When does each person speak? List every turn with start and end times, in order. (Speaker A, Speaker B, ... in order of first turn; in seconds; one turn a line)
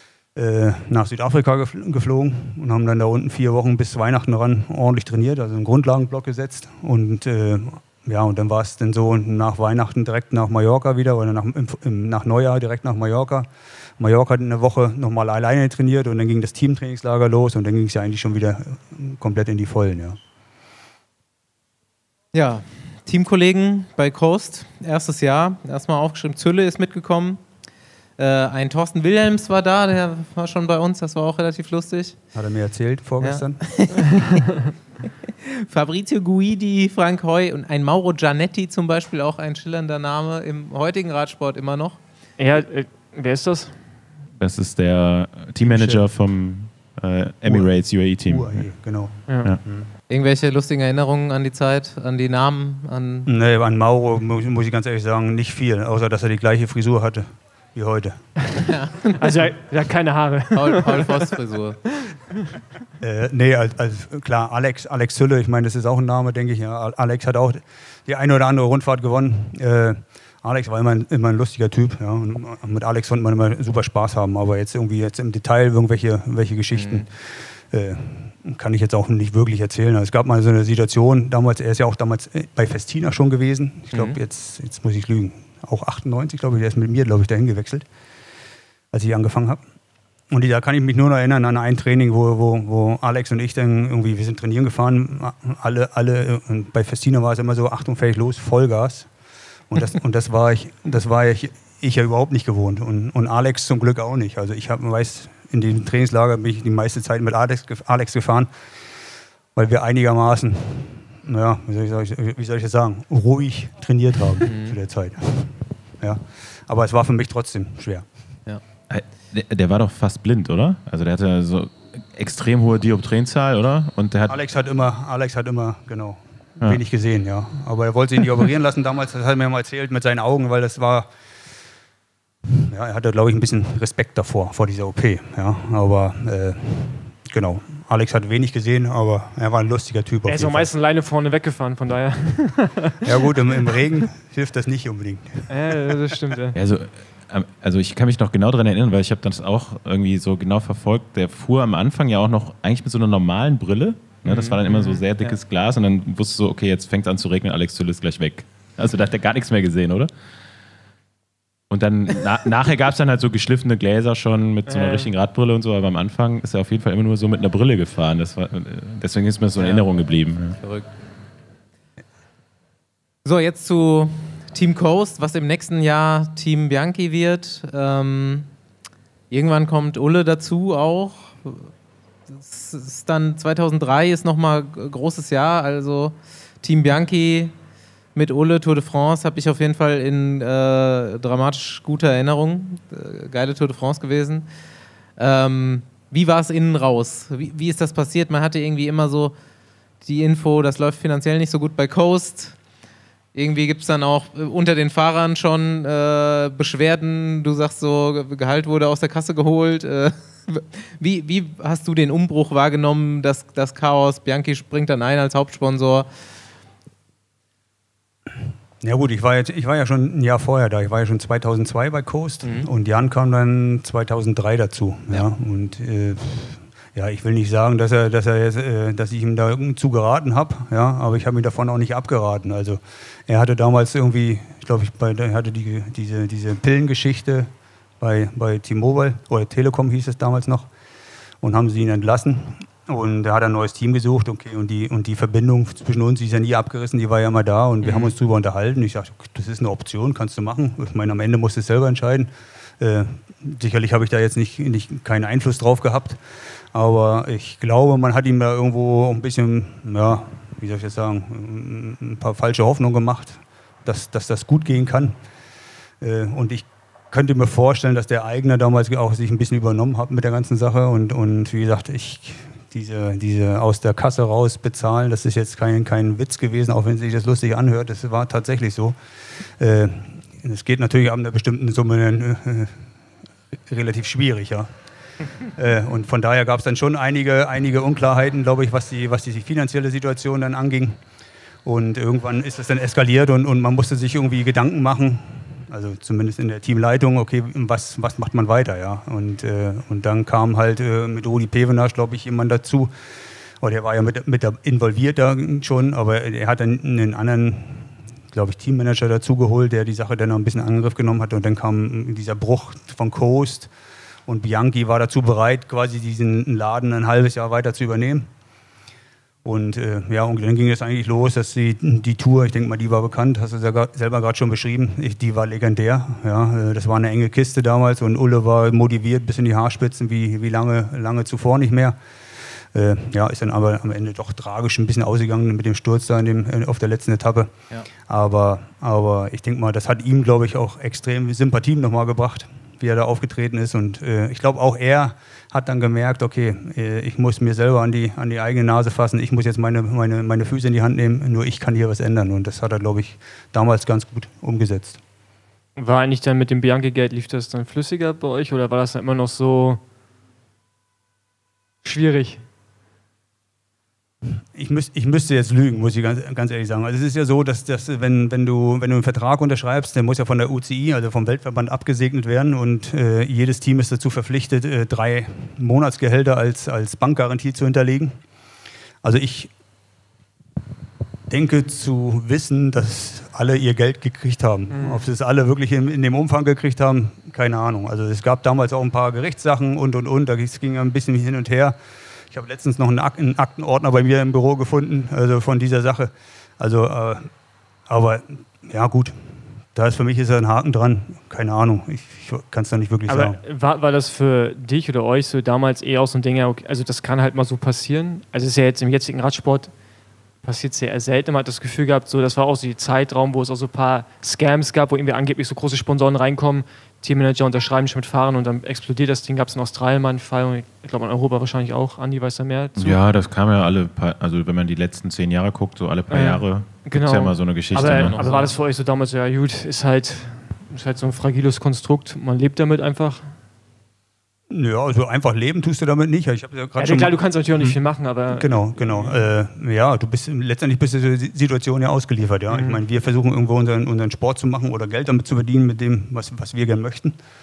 Speaker A: 0.3-13.5
Speaker A: 14.0-20.2
Speaker B: 22.3-27.4
Speaker B: 28.2-32.2
Speaker A: 32.3-33.6
Speaker B: 33.2-34.2
Speaker B: 35.2-42.0
Speaker C: 42.4-43.8
Speaker D: 44.4-48.7
Speaker A: 45.6-46.0
Speaker A: 47.5-47.7
Speaker A: 48.2-49.9
Speaker C: 49.3-49.5
Speaker B: 50.1-53.3
Speaker A: 53.2-58.3
Speaker B: 58.6-59.2
Speaker C: 59.2-61.3
Speaker B: 60.5-61.8
Speaker A: 63.0-87.8
Speaker B: 76.7-77.0
Speaker A: 88.9-89.6
Speaker A: 90.3-99.1
Speaker A: 99.7-108.5
Speaker A: 109.5-118.0
Speaker B: 114.5-114.8
Speaker D: 118.9-124.4
Speaker A: 124.3-131.1
Speaker A: 132.5-140.7
Speaker C: 140.2-143.2
Speaker A: 143.0-146.0
Speaker C: 145.5-146.6
Speaker D: 146.5-160.1
Speaker C: 154.3-155.4
Speaker D: 161.7-170.6
Speaker C: 164.7-165.1
Speaker B: 169.6-169.9
Speaker B: 170.6-170.9
Speaker B: 173.2-178.5
Speaker B: 179.3-181.7
Speaker B: 182.3-187.5
Speaker B: 188.1-194.5
Speaker B: 195.2-199.3
Speaker B: 200.0-202.6
Speaker B: 203.3-216.1
Speaker A: 218.8-240.7
Speaker B: 222.4-222.7
Speaker A: 241.4-256.2
Speaker B: 247.8-248.1
Speaker A: 256.7-265.2
Speaker A: 266.0-279.0
Speaker A: 279.6-282.9
Speaker A: 283.6-284.7
Speaker A: 285.5-291.0
Speaker A: 291.6-302.9
Speaker A: 303.6-313.7
Speaker A: 314.3-318.3
Speaker A: 319.4-337.5
Speaker A: 338.0-355.0
Speaker C: 355.8-359.8
Speaker C: 361.8-362.4
Speaker A: 364.4-378.2
Speaker A: 379.0-379.5
Speaker A: 381.3-391.8
Speaker C: 384.7-385.0
Speaker A: 392.3-397.3
Speaker A: 397.9-403.4
Speaker C: 403.1-409.7
Speaker C: 410.4-423.0
Speaker D: 422.8-428.2
Speaker C: 426.1-433.3
Speaker B: 427.8-428.5
Speaker A: 434.5-437.8
Speaker C: 436.8-439.2
Speaker A: 438.3-447.2
Speaker C: 442.5-442.8